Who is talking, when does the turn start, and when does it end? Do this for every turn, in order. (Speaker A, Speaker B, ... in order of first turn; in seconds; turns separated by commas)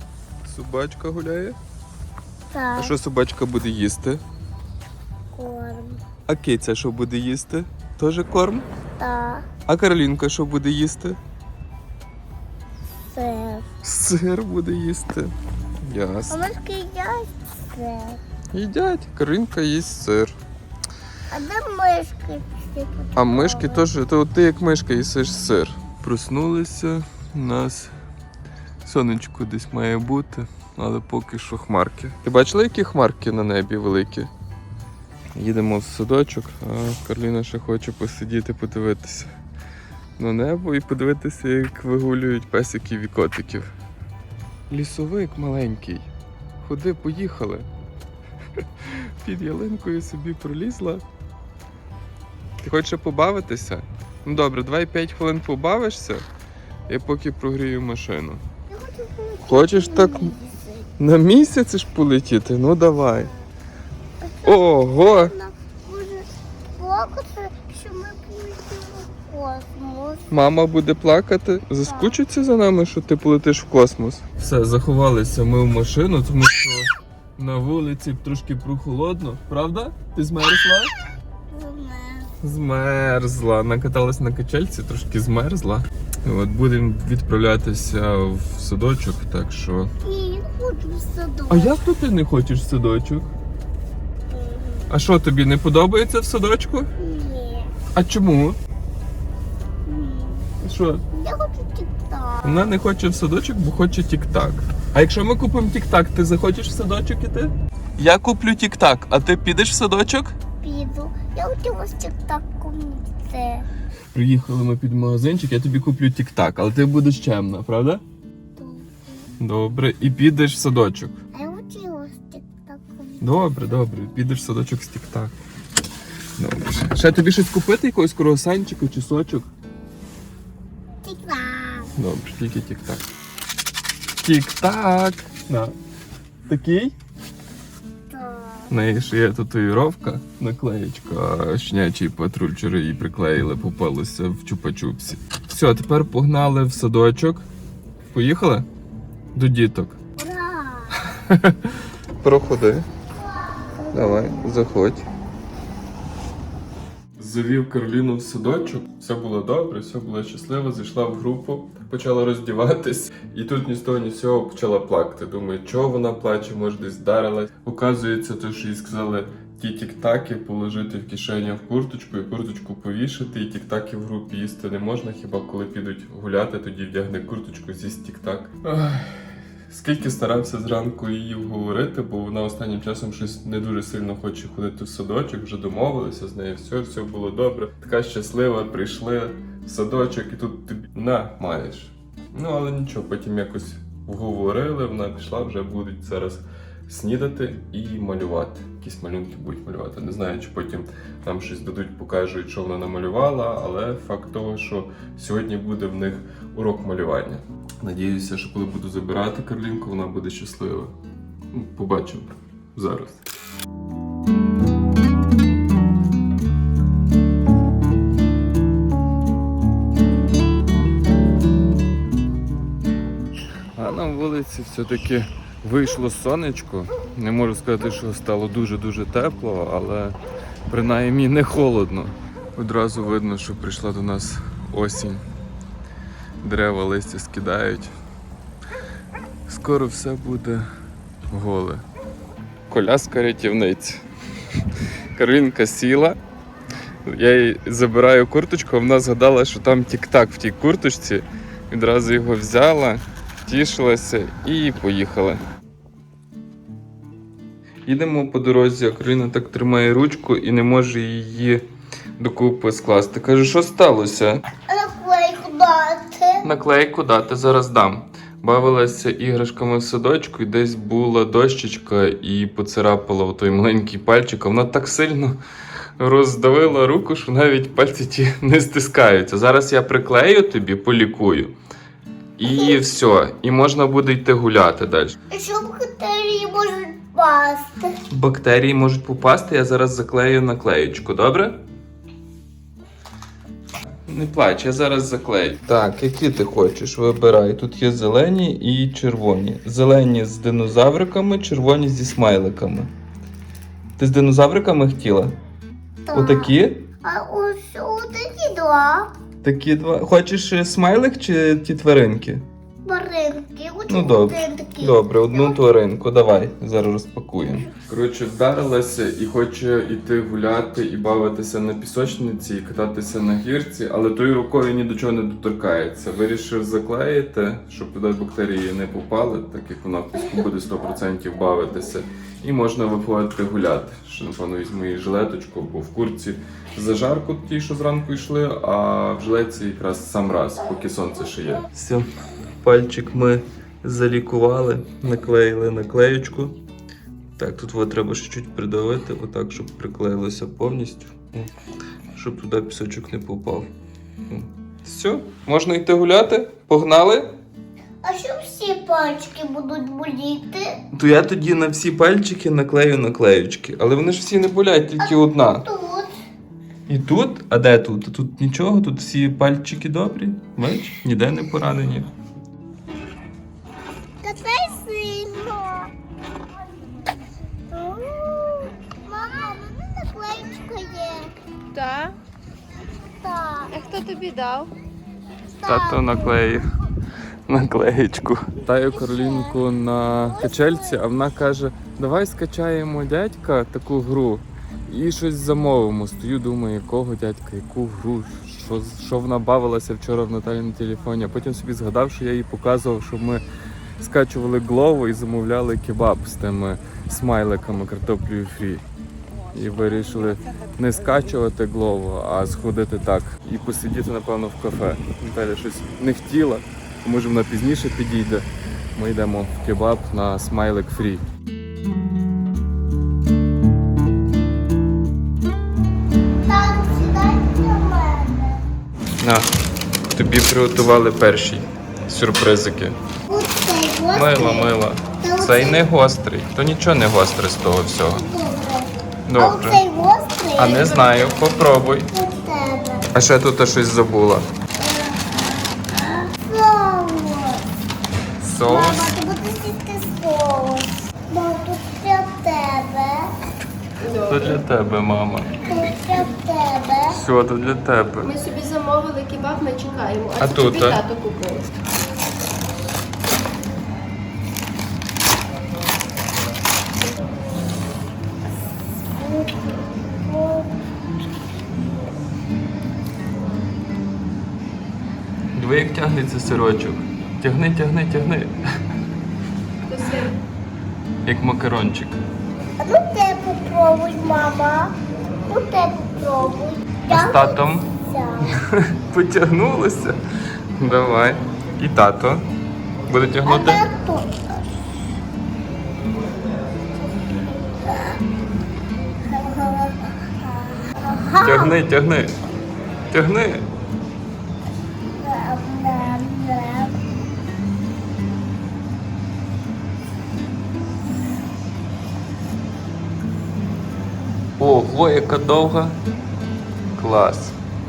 Speaker A: 0.4-1.6, Speaker B: 2.5-3.0, Speaker A: 2.8-4.2, Speaker B: 5.3-6.0, Speaker A: 6.3-8.7, Speaker B: 9.0-9.5, Speaker A: 9.7-11.2, Speaker B: 13.1-13.7, Speaker A: 13.8-16.4, Speaker B: 16.3-18.2, Speaker A: 18.5-20.4, Speaker B: 21.3-23.9, Speaker A: 23.1-27.9, Speaker A: 28.8-34.3, Speaker A: 35.3-39.3, Speaker A: 40.2-43.7, Speaker A: 44.7-46.1, Speaker A: 46.6-47.7, Speaker A: 48.8-51.0, Speaker A: 52.6-56.2, Speaker A: 56.9-58.4, Speaker B: 58.7-60.9, Speaker A: 59.4-60.3, Speaker A: 61.0-63.3, Speaker B: 64.2-70.3, Speaker A: 64.4-65.3, Speaker A: 70.3-80.9, Speaker B: 71.9-72.2, Speaker B: 81.5-82.3, Speaker A: 82.4-89.9, Speaker B: 90.0-91.8, Speaker A: 91.5-93.3, Speaker B: 94.3-94.9, Speaker A: 94.9-96.9, Speaker B: 97.0-97.7, Speaker A: 97.9-98.6, Speaker B: 99.8-100.5, Speaker A: 100.6-101.0, Speaker B: 101.1-102.7, Speaker A: 102.4-110.3, Speaker B: 110.6-113.7, Speaker A: 114.1-118.0, Speaker B: 118.5-119.3, Speaker A: 119.4-121.1, Speaker B: 121.3-123.3, Speaker A: 123.2-125.4, Speaker A: 126.4-129.5, Speaker B: 131.0-132.0, Speaker A: 131.9-133.1, Speaker A: 134.2-135.7, Speaker A: 136.5-136.9, Speaker B: 138.1-138.8, Speaker A: 138.7-147.4, Speaker A: 148.1-148.7, Speaker A: 149.3-150.0, Speaker B: 150.2-151.0, Speaker A: 151.2-152.9, Speaker B: 153.6-154.7, Speaker A: 153.9-155.1, Speaker A: 157.2-179.2, Speaker A: 179.7-210.9, Speaker A: 211.5-213.2, Speaker A: 223.7-230.2, Speaker A: 230.7-235.2, Speaker A: 236.4-237.9, Speaker A: 239.5-240.7, Speaker A: 241.3-241.8, Speaker A: 242.7-244.0, Speaker A: 245.2-246.2, Speaker A: 247.1-255.4, Speaker A: 257.9-261.6, Speaker A: 262.2-264.4, Speaker B: 264.7-266.5, Speaker A: 266.4-275.4, Speaker A: 276.0-281.5, Speaker A: 282.4-285.2, Speaker B: 285.3-287.9, Speaker A: 288.1-291.6, Speaker A: 294.1-302.9, Speaker A: 304.0-305.3, Speaker B: 306.1-309.1, Speaker A: 306.1-306.9, Speaker A: 309.4-312.4, Speaker B: 312.8-315.6, Speaker A: 313.9-342.1, Speaker A: 342.6-346.6, Speaker A: 347.4-351.5, Speaker A: 352.1-353.7, Speaker A: 354.3-357.3, Speaker B: 358.0-360.8, Speaker A: 360.9-365.6, Speaker B: 365.0-366.1, Speaker A: 366.9-372.1, Speaker B: 374.2-375.9, Speaker B: 377.7-381.3, Speaker C: 381.7-382.2, Speaker B: 383.2-383.8, Speaker C: 383.7-384.7, Speaker B: 385.5-386.3, Speaker A: 385.6-386.6, Speaker A: 387.5-403.4, Speaker B: 388.9-389.6, Speaker B: 390.2-391.0, Speaker A: 404.0-408.8, Speaker A: 409.5-421.2, Speaker B: 426.4-428.6, Speaker A: 429.2-429.5, Speaker A: 430.1-432.9, Speaker B: 433.3-435.9, Speaker A: 434.1-438.2, Speaker B: 438.1-440.9, Speaker A: 439.2-439.8, Speaker A: 440.6-442.1, Speaker C: 440.8-441.4, Speaker B: 442.1-443.1, Speaker A: 443.1-444.4, Speaker B: 444.8-447.6, Speaker A: 448.4-449.2, Speaker B: 448.7-453.3, Speaker C: 454.0-454.6, Speaker A: 454.3-455.5, Speaker B: 455.6-457.2, Speaker A: 457.1-458.3, Speaker C: 458.2-461.7, Speaker A: 460.4-461.0, Speaker B: 469.2-470.7, Speaker A: 475.5-478.6, Speaker C: 479.9-480.4, Speaker A: 481.2-482.2, Speaker B: 482.8-484.9, Speaker B: 485.5-488.6, Speaker A: 487.1-487.9, Speaker A: 488.7-490.2, Speaker A: 490.8-492.4, Speaker A: 493.1-493.8, Speaker B: 493.4-494.4, Speaker B: 497.7-498.2, Speaker B: 499.3-501.8, Speaker A: 501.4-502.3, Speaker A: 503.1-503.6, Speaker B: 505.2-507.0, Speaker A: 514.6-516.0, Speaker A: 516.9-517.6